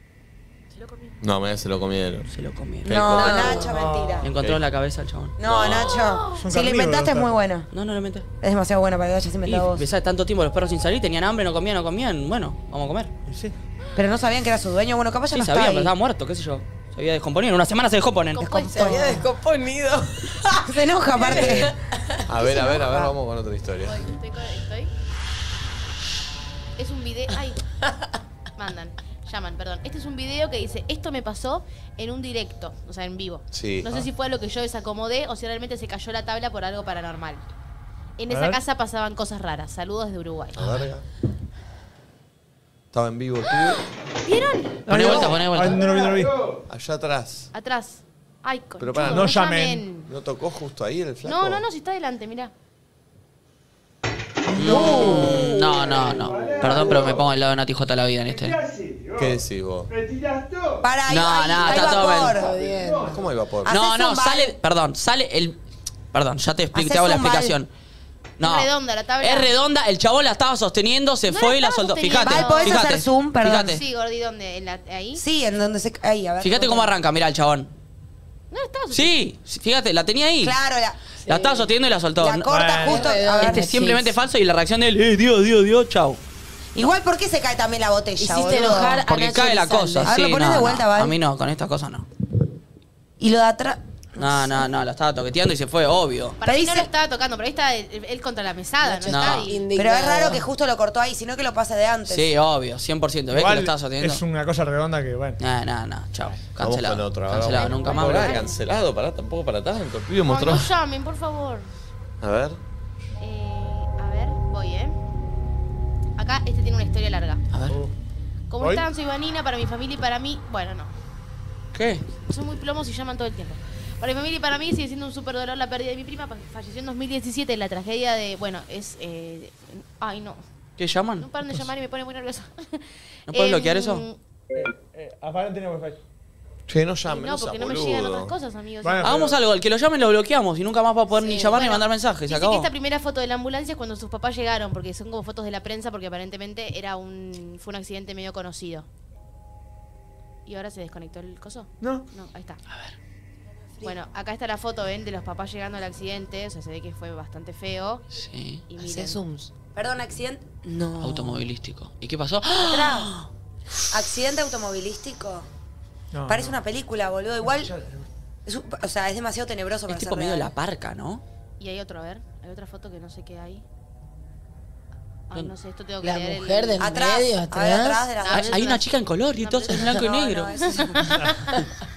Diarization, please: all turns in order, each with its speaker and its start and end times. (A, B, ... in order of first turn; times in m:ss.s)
0:00.7-0:01.2 A
0:01.2-0:02.3 B
0:02.3-0:03.2 C
0:02.8-0:04.3 D
0:02.9-0:04.6 B
0:03.2-0:03.7 E
0:03.7-0:04.2 F
0:04.2-0:05.4 C
0:05.4-0:07.7 D
0:05.4-0:06.1 B
0:06.0-0:06.4 A
0:06.4-0:07.3 F
0:07.7-0:08.3 C
0:08.4-0:09.9 D
0:09.4-0:13.1 C
0:13.3-0:13.6 F
0:14.0-0:15.9 D
0:15.3-0:18.5 C
0:18.3-0:19.1 A
0:18.4-0:19.3 D
0:18.7-0:22.7 E
0:20.7-0:21.7 D
0:21.3-0:21.7 B
0:22.3-0:24.0 B
0:22.6-0:23.0 D
0:23.8-0:24.9 A
0:26.8-0:27.6 A
0:28.6-0:37.4 A
0:33.5-0:34.0 B
0:38.2-0:40.6 A
0:38.3-0:38.6 F
0:40.6-0:41.0 B
0:42.9-0:43.8 B
0:43.5-0:45.2 A
0:44.9-0:46.6 F
0:44.9-0:45.9 C
0:44.9-0:45.4 B
0:46.7-0:47.5 B
0:47.5-0:50.1 A
0:48.8-0:49.4 B
0:49.0-0:49.9 F
0:50.1-0:51.6 B
0:51.2-0:52.5 A
0:54.5-0:58.6 C
0:54.6-0:57.3 F
0:54.8-0:56.9 B
0:58.3-1:00.8 F
0:59.2-0:59.9 B
1:00.8-1:02.5 D
1:01.1-1:02.4 C
1:01.8-1:03.2 F
1:01.9-1:03.2 E
1:03.1-1:03.7 B
1:03.7-1:04.6 D
1:03.7-1:05.6 C
1:06.1-1:07.7 C
1:06.7-1:07.6 D
1:08.4-1:08.7 C
1:08.4-1:09.5 A
1:09.2-1:13.8 C
1:11.3-1:12.8 A
1:12.2-1:13.8 D
1:13.7-1:15.2 A
1:15.2-1:16.9 D
1:16.4-1:17.7 C
1:18.5-1:19.2 A
1:18.9-1:20.6 C
1:20.4-1:21.0 D
1:21.2-1:21.7 E
1:21.3-1:22.5 C
1:22.2-1:23.7 D
1:22.5-1:23.0 F
1:22.7-1:24.2 E
1:23.3-1:26.2 C
1:26.8-1:29.0 D
1:28.2-1:30.1 E
1:29.0-1:32.1 C
1:30.0-1:31.2 D
1:33.2-1:34.7 D
1:34.2-1:36.4 C
1:36.4-1:39.6 A
1:36.4-1:36.9 D
1:38.8-1:40.4 E
1:39.1-1:39.5 C
1:39.7-1:42.3 D
1:42.1-1:44.2 C
1:43.3-1:45.4 F
1:45.4-1:48.4 C
1:46.6-1:50.7 B
1:47.5-1:48.5 A
1:50.3-1:51.7 A
1:52.2-1:52.6 B
1:53.2-1:55.0 A
1:56.2-1:57.4 A
1:57.5-1:57.8 C
1:58.5-2:00.9 A
1:58.6-1:58.9 F
2:01.7-2:02.0 C
2:02.3-2:10.4 A
2:10.8-2:11.3 C
2:11.2-2:14.2 A
2:13.3-2:14.0 C
2:14.6-2:16.0 F
2:16.7-2:18.3 B
2:17.1-2:19.2 A
2:18.8-2:19.4 F
2:19.0-2:22.7 C
2:21.2-2:21.6 E
2:21.3-2:28.9 A
2:30.5-2:32.6 A
2:31.8-2:32.1 F
2:32.7-2:33.0 C
2:33.8-2:38.0 A
2:38.1-2:38.6 C
2:38.7-2:39.2 A
2:38.8-2:39.5 E
2:39.8-2:41.4 D
2:41.0-2:43.3 C
2:42.6-2:43.1 D
2:43.9-2:45.5 D
2:46.1-2:46.6 F
2:46.3-2:47.7 D
2:48.5-2:50.5 D
2:49.9-2:51.2 C
2:51.6-2:53.6 A
2:55.3-2:56.9 A
2:56.0-2:58.1 E
2:56.8-2:58.7 D
2:58.2-3:00.1 A
2:58.3-3:00.5 C
2:59.8-3:01.3 D
3:00.6-3:01.7 A